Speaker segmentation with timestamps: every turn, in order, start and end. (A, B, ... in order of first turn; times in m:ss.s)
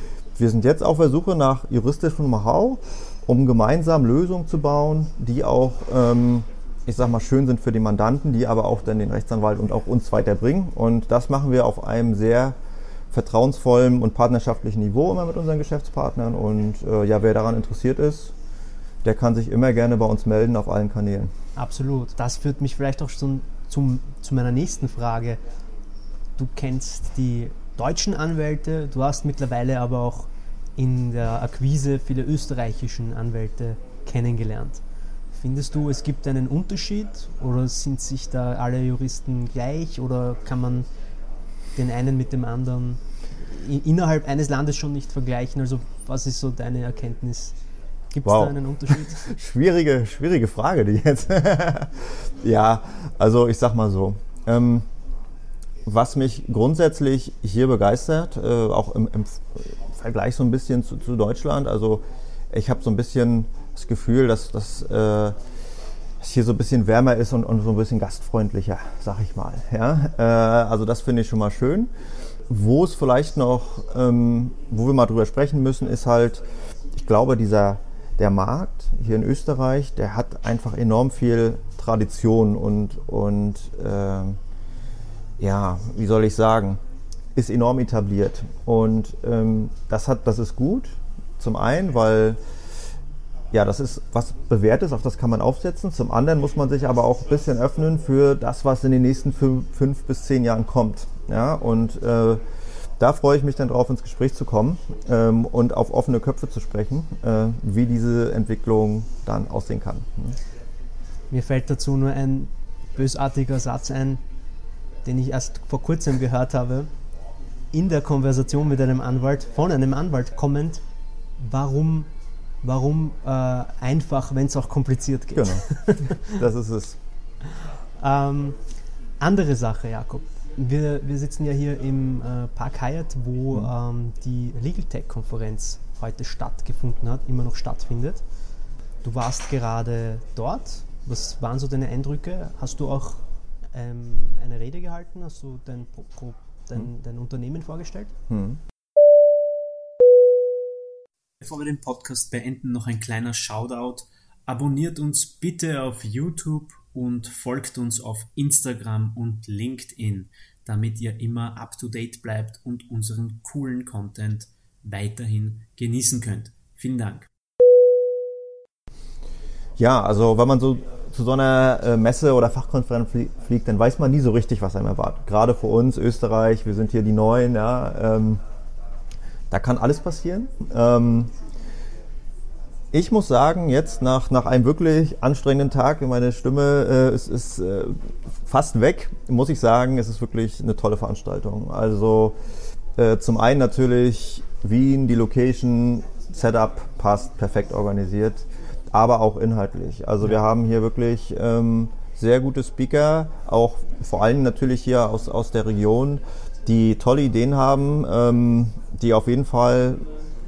0:00.4-0:12.6 A
0:13.1-0:18.3 A
0:19.0-0:21.3 A
0:21.6-0:25.4 B
0:26.4-0:34.8 B
0:35.4-0:40.9 B
0:41.8-0:47.5 B
0:48.1-0:49.4 B
0:48.2-0:54.9 A
0:55.8-1:05.4 A
1:06.2-1:11.9 A
1:12.5-1:24.4 A
1:25.4-1:26.8 A
1:27.4-1:32.4 A
1:33.5-1:42.4 A
1:43.0-1:50.4 A
1:51.3-1:54.2 B
1:55.0-1:56.9 B
1:57.7-2:00.8 B
2:01.4-2:02.1 B
2:02.6-2:06.4 B
2:05.4-2:07.0 A
2:07.6-2:08.6 B
2:09.2-2:18.2 B
2:19.0-2:28.1 B
2:28.3-2:28.6 A
2:31.4-2:47.3 C
2:49.8-2:58.4 A
2:59.5-3:01.3 A
3:02.9-3:12.4 A
3:13.0-3:30.0 A